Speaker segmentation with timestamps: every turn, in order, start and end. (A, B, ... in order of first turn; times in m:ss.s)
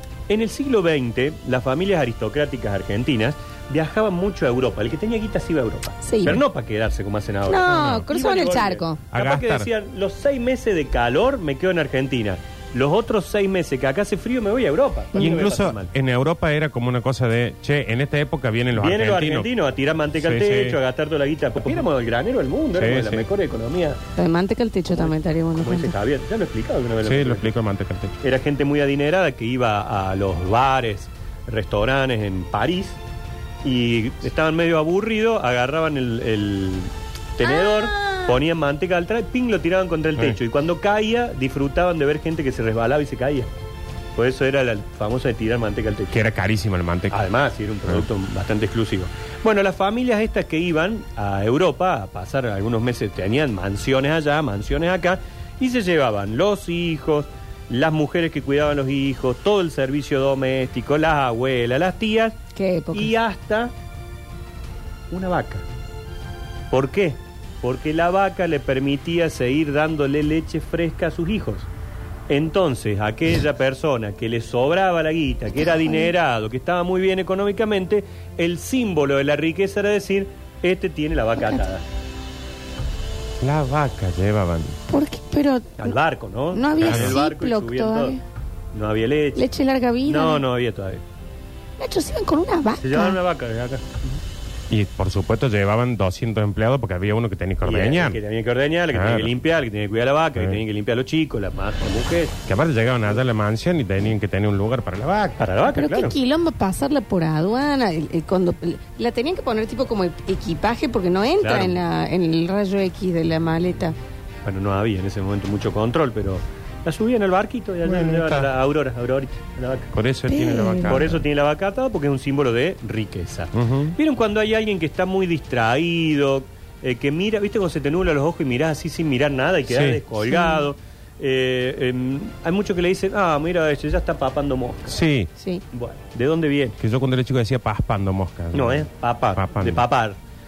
0:00.3-0:15.9 A
0:06.0-0:06.4 B
0:07.5-0:09.0 B
0:07.7-0:08.1 C
0:09.1-0:09.7 C
0:15.1-0:15.4 B
0:15.2-0:19.5 C
0:18.8-0:24.0 A
0:20.2-0:20.8 C
0:22.7-0:23.3 C
0:24.2-0:26.0 B
0:24.9-0:27.5 A
0:27.0-0:28.2 C
0:28.2-0:33.0 A
0:33.6-0:43.5 A
0:37.4-0:38.4 B
0:44.2-0:46.2 A
0:46.1-0:47.3 C
0:47.1-1:02.4 A
1:02.6-1:03.1 B
1:02.9-1:03.7 A
1:05.1-1:05.6 A
1:06.7-1:11.7 A
1:12.3-1:21.8 A
1:23.4-1:24.8 C
1:24.9-1:26.0 B
1:25.8-1:28.2 A
1:26.5-1:28.2 B
1:26.8-1:27.2 C
1:28.7-1:29.5 A
1:29.4-1:30.4 B
1:30.0-1:31.0 A
1:31.8-1:33.2 B
1:32.8-1:34.2 A
1:34.7-1:38.2 C
1:37.6-1:42.4 A
1:38.9-1:39.3 C
1:40.4-1:40.6 C
1:42.5-1:45.4 C
1:45.4-1:46.2 A
1:45.7-1:54.0 B
1:51.4-1:51.8 A
1:54.4-1:59.9 A
1:57.8-1:58.5 C
1:59.9-2:01.2 C
2:00.3-2:01.0 B
2:00.9-2:15.0 A
2:03.5-2:04.0 C
2:09.7-2:10.0 C
2:10.3-2:10.6 B
2:14.9-2:15.3 C
2:15.7-2:16.8 A
2:16.8-2:19.9 C
2:18.5-2:20.2 A